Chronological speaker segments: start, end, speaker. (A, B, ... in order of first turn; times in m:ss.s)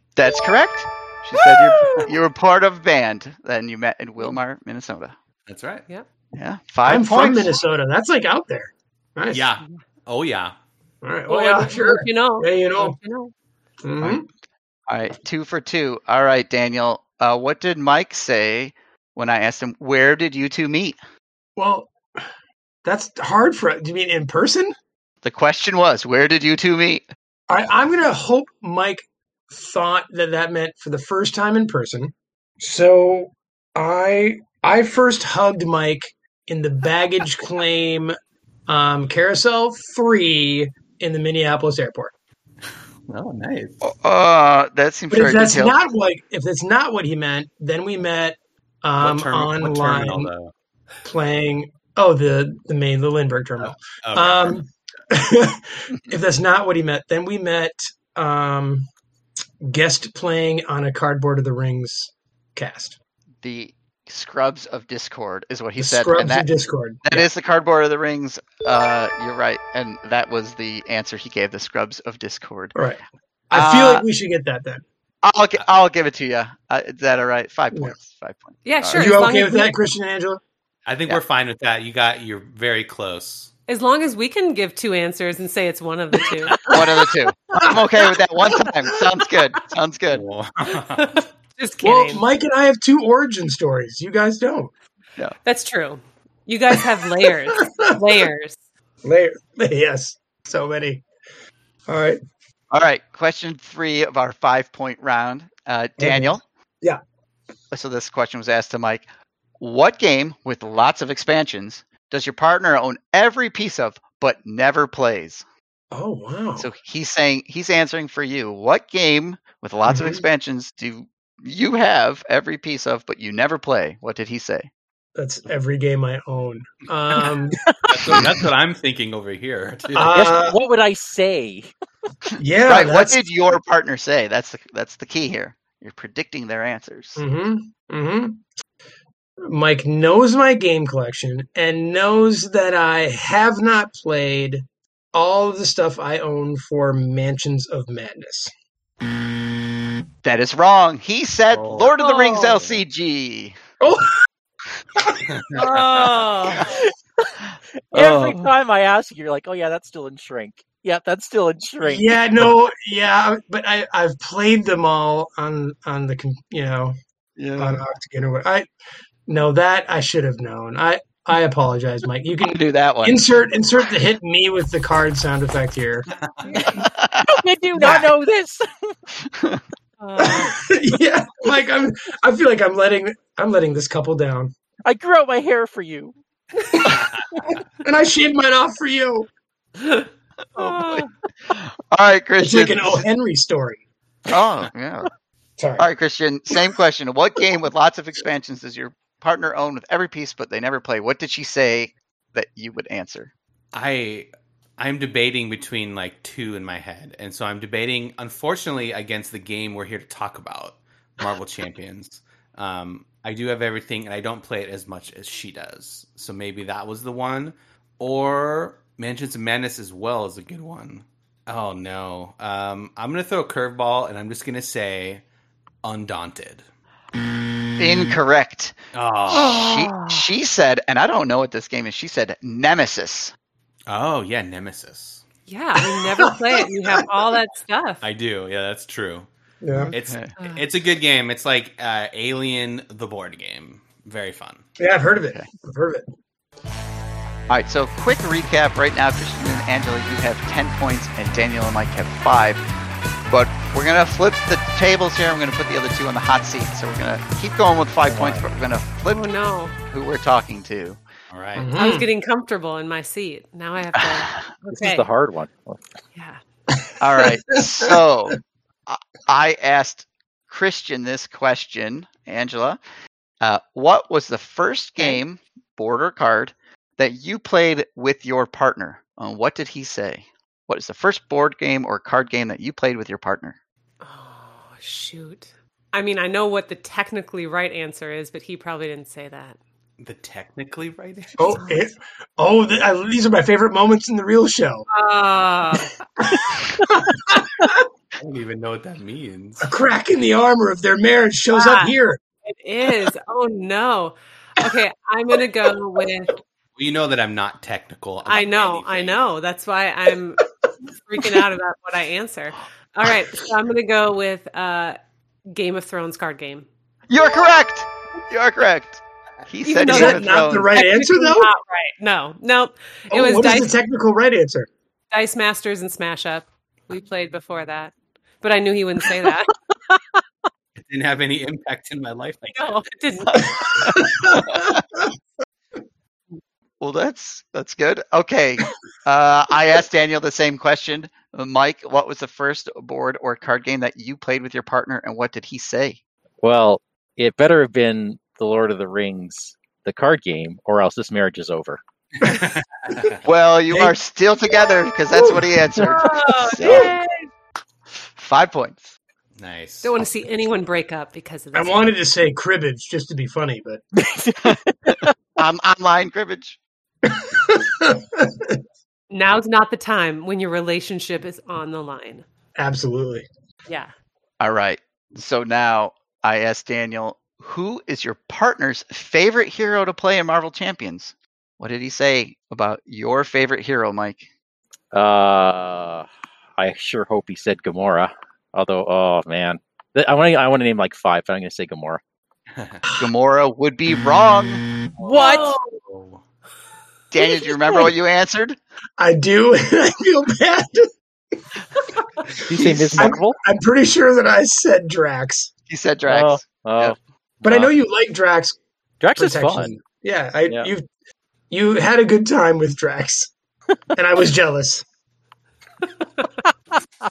0:00.2-0:05.2 A
0:05.5-0:05.8 B
0:06.3-0:07.6 A
0:06.8-0:09.4 C
0:09.3-0:10.5 B
0:11.0-0:13.0 C
0:11.3-0:13.3 D
0:13.8-0:14.2 C
0:14.9-0:21.0 A
0:21.6-0:22.0 C
0:22.8-0:24.7 C
0:25.2-0:27.0 A
0:27.5-0:38.2 C
0:38.7-0:42.1 C
0:43.1-0:43.8 B
0:43.8-0:45.8 A
0:45.1-0:50.3 C
0:49.0-0:50.5 B
0:51.0-0:58.9 C
0:53.6-0:54.6 B
0:59.6-1:03.0 C
1:03.4-1:06.5 A
1:05.8-1:07.3 C
1:07.0-1:12.7 A
1:12.7-1:14.8 C
1:13.5-1:14.0 A
1:15.2-1:19.2 A
1:18.6-1:19.7 D
1:18.9-1:20.4 C
1:20.9-1:23.5 B
1:23.7-1:26.5 D
1:26.7-1:30.2 A
1:30.1-1:31.2 B
1:30.9-1:32.2 D
1:31.8-1:34.7 C
1:35.4-1:38.6 D
1:37.6-1:37.9 C
1:39.0-1:41.0 C
1:41.9-1:42.2 C
1:42.7-1:46.4 A
1:46.0-1:47.0 C
1:47.7-1:49.0 A
1:49.6-1:55.4 A
1:55.9-1:56.6 C
1:56.6-2:04.7 A
1:59.9-2:00.2 C
2:05.2-2:07.6 C
2:07.6-2:07.9 E
2:07.9-2:10.3 B
2:09.9-2:10.6 C
2:10.1-2:11.7 E
2:12.4-2:13.2 C
2:12.6-2:17.2 A
2:17.2-2:18.4 C
2:19.4-2:28.5 C
2:30.2-2:33.6 A
2:31.5-2:31.9 B
2:32.0-2:32.6 D
2:33.8-2:34.1 C
2:35.3-2:36.2 B
2:35.5-2:36.7 D
2:36.6-2:37.4 E
2:37.9-2:42.1 E
2:37.9-2:38.5 A
2:41.8-2:47.0 C
2:47.4-2:47.8 A
2:47.6-2:48.7 C
2:49.3-2:56.1 C
2:52.4-2:53.2 A
2:56.5-2:59.0 E
2:56.8-2:57.3 A
2:57.8-2:58.0 C
2:59.3-2:59.6 A
3:00.0-3:00.5 D
3:00.2-3:04.5 C
3:04.8-3:06.2 E
3:07.8-3:09.3 C
3:09.8-3:11.1 D
3:10.6-3:13.1 A
3:12.4-3:13.8 C
3:14.3-3:15.1 A
3:15.6-3:15.9 C
3:15.8-3:23.3 A
3:23.7-3:45.2 B
3:45.8-3:46.6 B
3:47.8-3:48.8 A
3:48.9-3:49.7 B
3:49.3-3:53.3 A
3:49.3-3:50.2 D
3:53.9-3:55.2 B
3:55.5-3:58.0 D
3:55.8-3:56.3 C
3:58.0-3:59.3 B
3:59.6-3:59.9 C
3:59.8-4:00.3 A
3:59.9-4:04.6 B
4:00.4-4:00.6 D
4:04.8-4:06.1 C
4:07.5-4:12.6 A
4:13.3-4:19.2 A
4:18.0-4:18.4 E
4:19.1-4:19.7 D
4:19.9-4:21.0 A
4:21.3-4:21.8 B
4:21.6-4:22.1 C
4:21.7-4:25.0 D
4:24.7-4:25.8 E
4:27.0-4:32.8 A
4:27.2-4:27.9 C
4:33.4-4:43.6 A
4:44.0-4:49.6 D
4:50.0-4:51.6 B
4:51.4-4:54.8 C
4:51.5-4:51.8 D
4:54.9-4:55.9 D
4:56.2-4:57.8 C
4:58.2-4:59.7 B
4:59.6-5:02.2 C
5:01.5-5:01.9 D
5:02.4-5:06.4 D
5:06.8-5:09.2 B
5:08.2-5:10.4 D
5:11.0-5:15.0 D
5:15.5-5:16.7 D
5:17.1-5:20.7 A
5:19.6-5:23.7 D
5:19.8-5:21.5 C
5:23.1-5:24.7 C
5:25.1-5:30.0 D
5:30.8-5:32.6 B
5:32.6-5:33.4 D
5:33.3-5:34.8 A
5:33.4-5:34.6 C
5:36.8-5:46.0 A
5:46.4-5:51.8 E
5:52.2-5:53.2 B
5:53.2-5:56.9 A
5:53.7-5:53.9 C
5:55.1-5:55.5 C
5:55.9-5:57.3 D
5:58.2-5:58.9 A
5:59.4-6:00.0 B
5:59.8-6:01.9 D
6:01.5-6:03.8 C
6:03.9-6:05.1 E
6:05.4-6:06.6 A
6:07.0-6:08.6 C
6:09.1-6:12.2 D
6:12.6-6:13.2 C
6:13.7-6:13.9 D
6:14.4-6:24.3 A
6:24.9-6:32.0 E
6:32.6-6:32.8 B
6:33.0-6:34.6 A
6:35.0-6:35.3 B
6:35.0-6:35.6 E
6:35.1-6:35.6 D
6:35.8-6:36.2 B
6:37.1-6:38.6 A
6:39.0-6:40.9 C
6:42.4-6:43.4 E
6:42.5-6:43.1 A
6:43.0-6:45.5 C
6:45.7-6:47.0 A
6:46.1-6:47.7 E
6:47.4-6:48.6 C
6:49.0-6:49.8 E
6:49.2-6:50.9 C
6:51.5-6:53.3 C
6:54.0-6:54.8 C
6:56.2-6:56.4 D